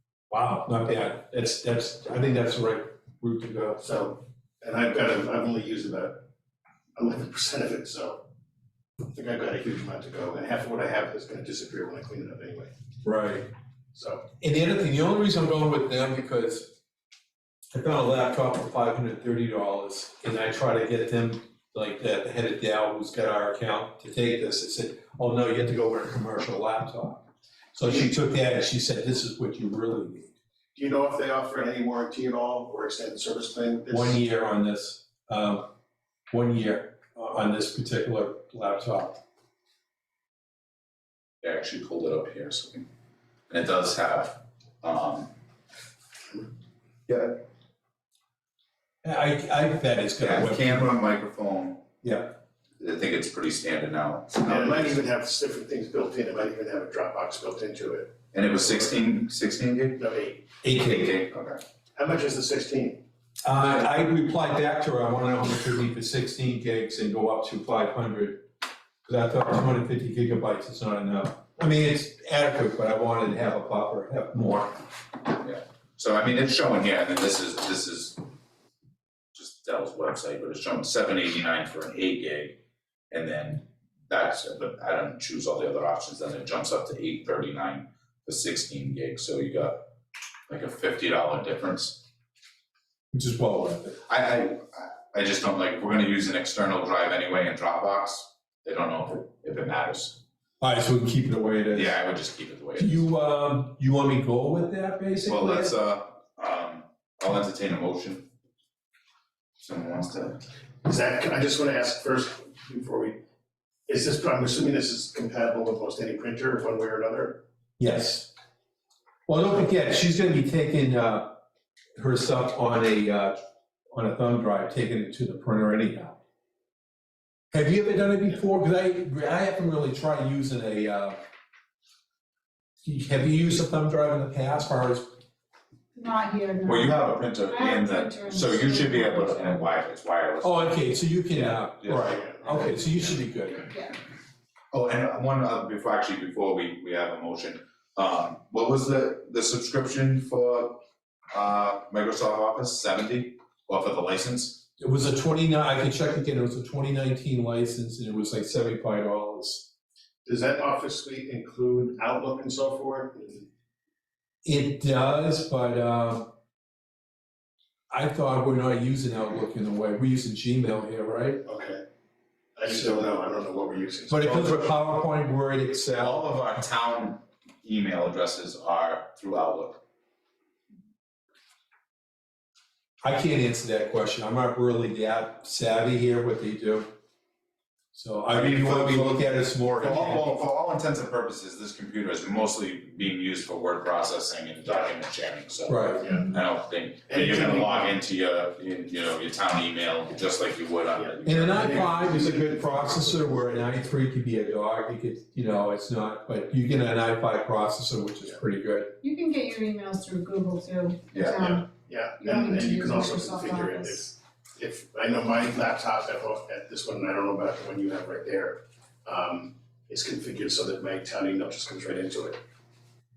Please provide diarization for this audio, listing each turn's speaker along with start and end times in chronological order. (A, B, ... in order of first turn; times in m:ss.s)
0:00.3-0:03.8 A
0:03.8-0:06.2 B
0:07.0-0:08.2 B
0:09.1-0:12.7 B
0:13.0-0:13.5 A
0:13.9-0:14.2 B
0:14.4-0:16.7 A
0:17.7-0:27.2 A
0:27.7-0:30.3 A
0:27.8-0:28.1 B
0:30.7-0:34.2 B
0:33.9-0:35.6 A
0:36.3-0:39.2 A
0:41.4-0:42.8 C
0:43.5-0:45.3 C
0:47.1-0:47.4 C
0:49.0-0:50.9 A
0:50.2-0:51.8 C
0:52.0-0:52.3 A
0:52.8-0:55.0 C
0:54.4-0:58.1 B
0:58.3-1:00.0 C
1:00.0-1:00.4 B
1:00.6-1:01.1 A
1:00.7-1:01.6 C
1:01.9-1:03.0 B
1:03.4-1:08.4 A
1:09.0-1:14.8 A
1:15.4-1:18.2 C
1:19.3-1:22.6 C
1:23.1-1:29.8 C
1:30.5-1:32.0 C
1:33.1-1:34.0 A
1:34.1-1:40.2 C
1:40.6-1:42.0 A
1:41.7-1:43.0 C
1:42.8-1:45.7 A
1:45.2-1:48.2 C
1:49.6-1:50.4 C
1:50.8-1:53.2 B
1:53.9-1:57.4 B
1:57.8-1:58.3 A
1:59.3-2:01.4 A
2:02.0-2:03.4 A
2:03.9-2:06.2 A
2:07.5-2:11.2 A
2:12.8-2:15.1 A
2:15.9-2:19.7 D
2:16.6-2:23.2 C
2:20.4-2:23.7 A
2:23.7-2:24.0 D
2:24.7-2:34.6 C
2:34.8-2:39.7 A
2:40.2-2:43.5 B
2:44.4-2:46.3 A
2:47.9-2:51.4 A
2:51.4-2:51.8 B
2:52.6-2:54.7 B
2:54.1-2:56.2 A
2:56.0-2:59.8 C
3:03.0-3:06.9 A
3:07.9-3:10.3 A
3:08.3-3:22.1 C
3:14.6-3:14.9 B
3:15.6-3:16.0 A
3:16.0-3:16.3 B
3:17.1-3:17.9 B
3:20.9-3:23.8 B
3:21.2-3:28.9 A
3:29.0-3:34.1 D
3:31.1-3:31.4 C
3:31.3-3:42.4 B